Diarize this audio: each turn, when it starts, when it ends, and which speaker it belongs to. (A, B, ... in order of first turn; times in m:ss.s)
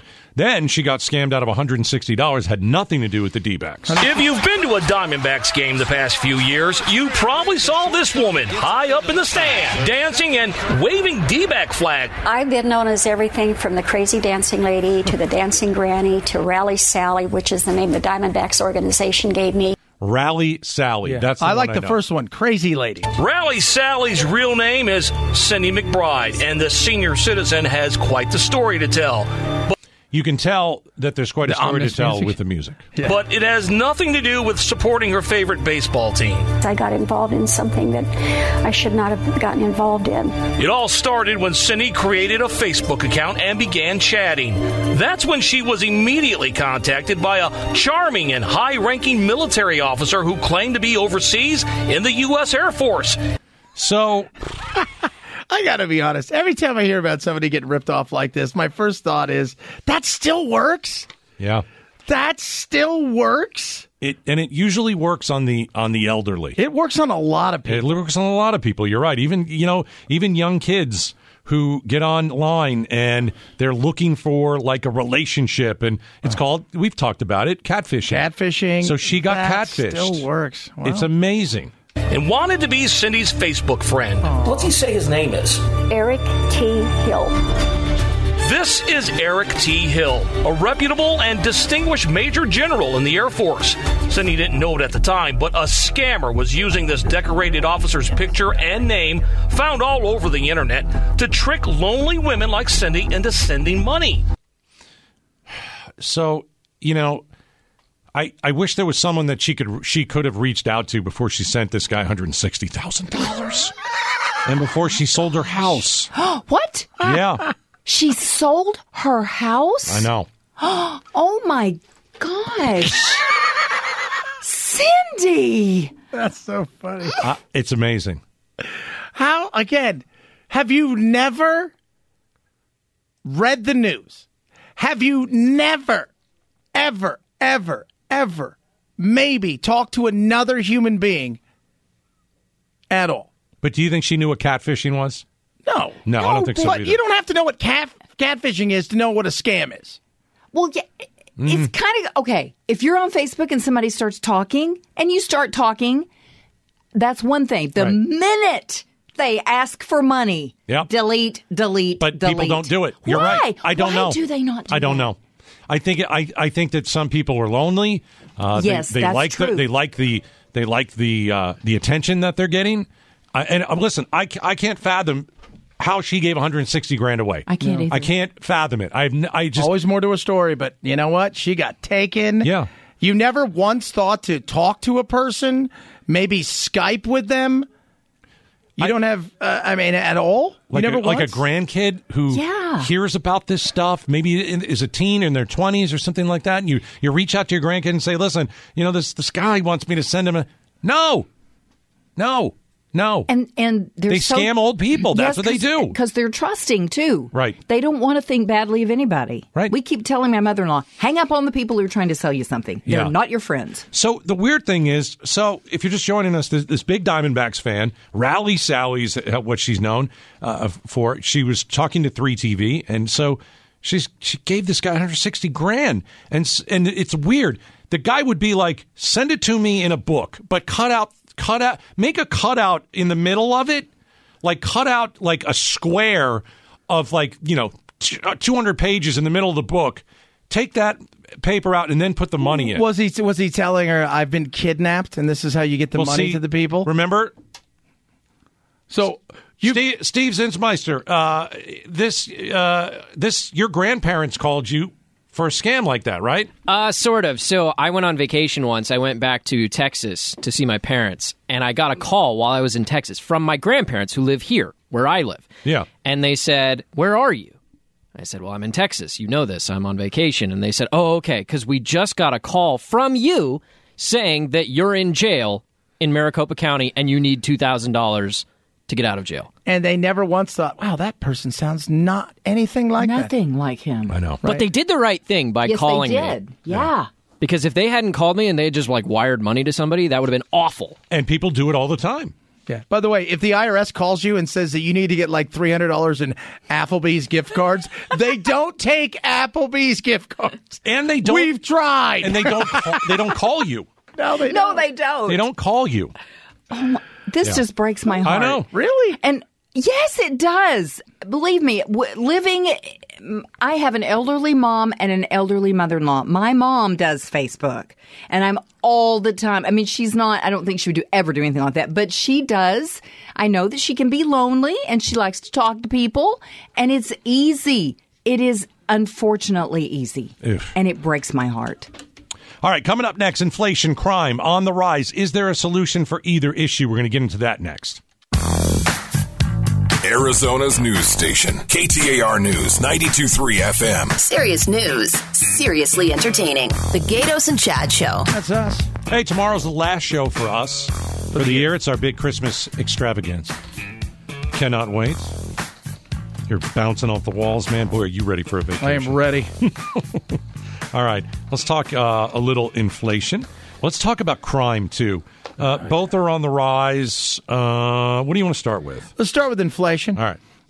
0:00.4-0:04.0 A
0:04.0-0:12.2 B
0:12.2-0:19.8 C
0:20.0-0:22.0 A
0:21.0-0:23.1 D
0:23.2-0:29.4 B
0:30.1-0:32.9 A
0:31.4-0:32.4 D
0:33.0-0:36.5 B
0:36.6-0:40.4 C
0:40.6-0:53.2 B
0:53.8-0:54.3 A
0:55.5-1:01.1 D
1:01.4-1:01.6 A
1:02.1-1:03.9 D
1:04.0-1:06.6 A
1:06.6-1:07.9 D
1:07.7-1:18.2 A
1:18.1-1:21.1 D
1:18.8-1:20.3 A
1:20.8-1:21.7 A
1:22.1-1:25.6 B
1:24.2-1:24.7 D
1:25.8-1:27.4 C
1:28.4-1:44.2 B
1:46.0-1:47.3 A
1:48.1-1:53.7 A
1:54.4-1:56.1 A
1:56.1-1:57.2 E
1:57.0-1:57.4 A
1:57.9-2:00.1 E
1:59.9-2:00.3 A
2:00.6-2:03.3 E
2:04.4-2:05.9 E
2:06.1-2:07.3 D
2:07.2-2:08.2 A
2:09.2-2:11.7 D
2:13.2-2:14.2 D
2:14.8-2:16.1 D
2:16.8-2:21.4 D
2:22.9-2:23.3 D
2:23.6-2:25.2 A
2:25.7-2:30.0 D
2:26.0-2:27.0 A
2:26.2-2:26.7 E
2:30.5-2:36.1 E
2:31.4-2:31.7 A
2:37.0-2:45.1 E
2:42.0-2:45.2 A
2:45.7-2:55.3 A
2:48.6-2:49.7 E
2:55.8-2:59.7 A
2:57.5-2:58.1 E
2:59.6-3:07.7 D
3:02.4-3:02.7 A
3:08.8-3:11.4 D
3:10.7-3:21.3 A
3:12.3-3:12.9 E
3:22.2-3:23.3 A
3:23.3-3:33.9 E
3:24.1-3:26.0 A
3:27.3-3:27.6 A
3:32.8-3:33.1 A
3:33.9-3:53.9 A
3:54.4-4:02.9 A
4:02.5-4:06.9 D
4:05.9-4:07.3 A
4:08.9-4:09.8 D
4:09.6-4:16.5 A
4:16.7-4:27.6 F
4:28.2-4:39.5 F
4:39.7-4:43.3 D
4:43.0-4:44.2 E
4:44.1-4:44.4 A
4:44.4-4:46.4 F
4:45.6-4:47.1 E
4:47.4-4:51.0 F
4:51.1-4:52.3 A
4:52.7-5:03.2 D
5:00.8-5:01.6 A
5:02.2-5:03.9 A
5:04.2-5:04.9 D
5:04.4-5:05.4 E
5:05.3-5:06.2 A
5:06.7-5:08.6 E
5:08.2-5:08.7 A
5:08.4-5:09.2 D
5:09.2-5:31.9 E
5:30.4-5:30.7 A
5:32.6-5:38.0 A
5:40.0-5:44.2 G
5:44.2-5:48.3 H
5:48.3-5:48.9 D
5:49.1-5:53.6 A
5:51.3-5:51.7 D
5:54.5-5:55.4 A
5:56.5-6:00.4 A
5:58.8-5:59.5 D
6:00.9-6:09.1 A
6:09.2-6:10.2 D